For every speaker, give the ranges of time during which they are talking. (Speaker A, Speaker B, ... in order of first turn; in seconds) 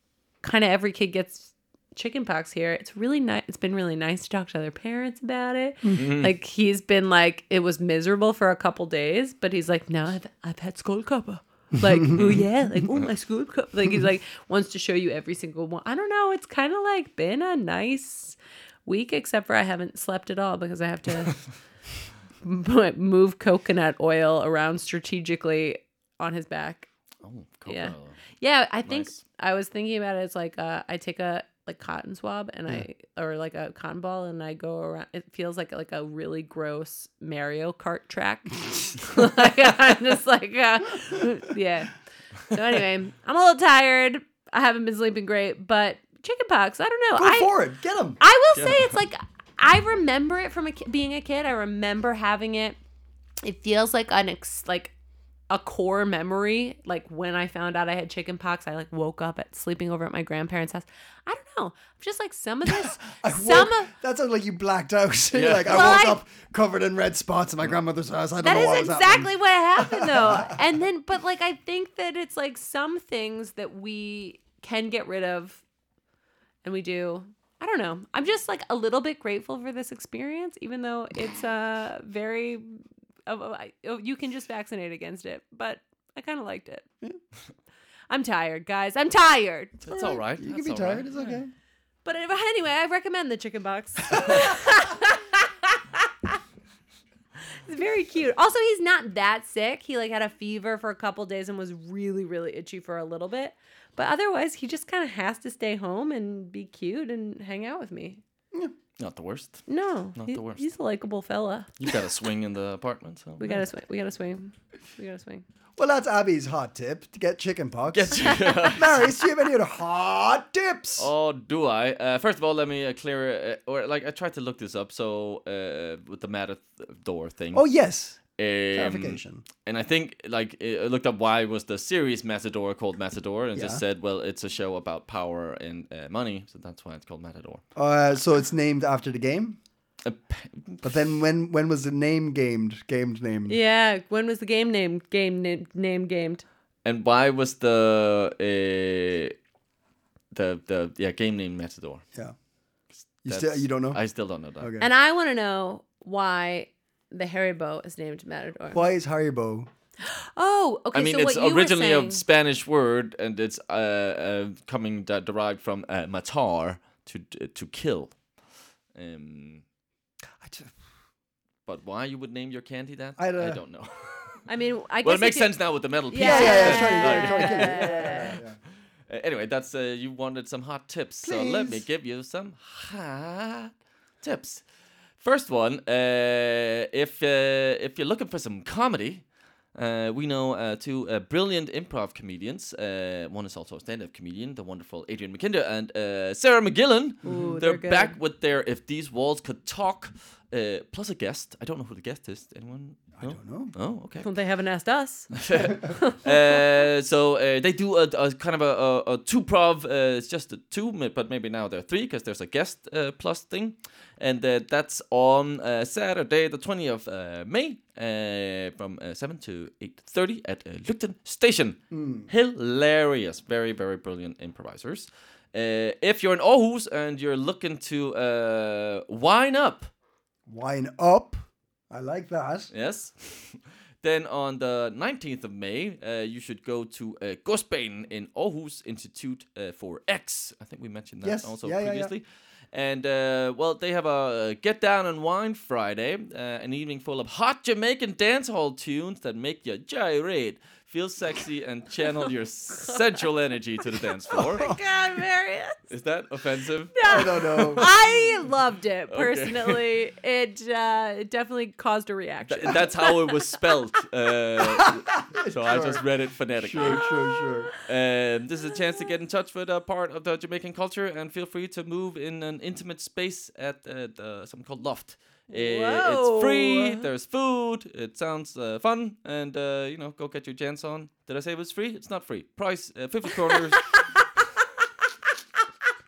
Speaker A: 0.4-21.4, 22.4-26.9, 27.7-47.5, 48.2-52.8, 53.4-54.9, 55.5-63.9, 65.7-66.2, 68.4-75.6, 76.6-86.8, 88.1-90.2, 92.0-96.4, 97.4-108.2, 109.7-111.8, 113.4-115.4, 118.3-118.7, 143.5-146.4, 154.8-158.8, 160.0-162.2, 174.5-175.6, 176.1-178.4, 197.2-198.2, 204.2-206.6, 254.3-255.8, 256.9-263.5, 266.8-267.1, 275.5-277.1
Speaker B: 5.9-6.3, 12.2-12.4, 27.2-28.2, 28.9-29.1, 48.5-48.9, 65.3-65.8, 89.8-91.1, 109.0-110.6, 111.8-113.6, 117.9-119.0, 121.0-127.6, 128.3-137.6, 140.0-140.9, 146.8-149.3, 150.3-152.0, 153.2-154.7, 160.9-168.2, 168.9-169.6, 171.7-174.4, 175.0-178.4, 179.1-184.6, 185.2-189.2, 189.8-204.3, 205.3-229.9, 232.7-254.7, 255.9-258.2, 259.1-259.9, 262.5-267.1, 267.8-283.9
Speaker C: 11.8-12.2, 47.1-48.2, 62.6-70.6, 89.9-91.5, 115.8-121.1, 127.5-128.2, 128.7-129.4, 133.5-133.8, 137.8-139.6, 140.8-143.6, 153.2-154.0, 154.6-154.9, 158.7-159.7, 170.4-170.7, 173.2-173.6, 176.2-178.6, 181.2-181.8, 197.2-197.5, 203.1-203.7, 221.9-222.3, 230.5-231.4, 231.9-232.7, 241.2-242.1, 254.4-254.8, 257.1-257.9, 264.6-267.7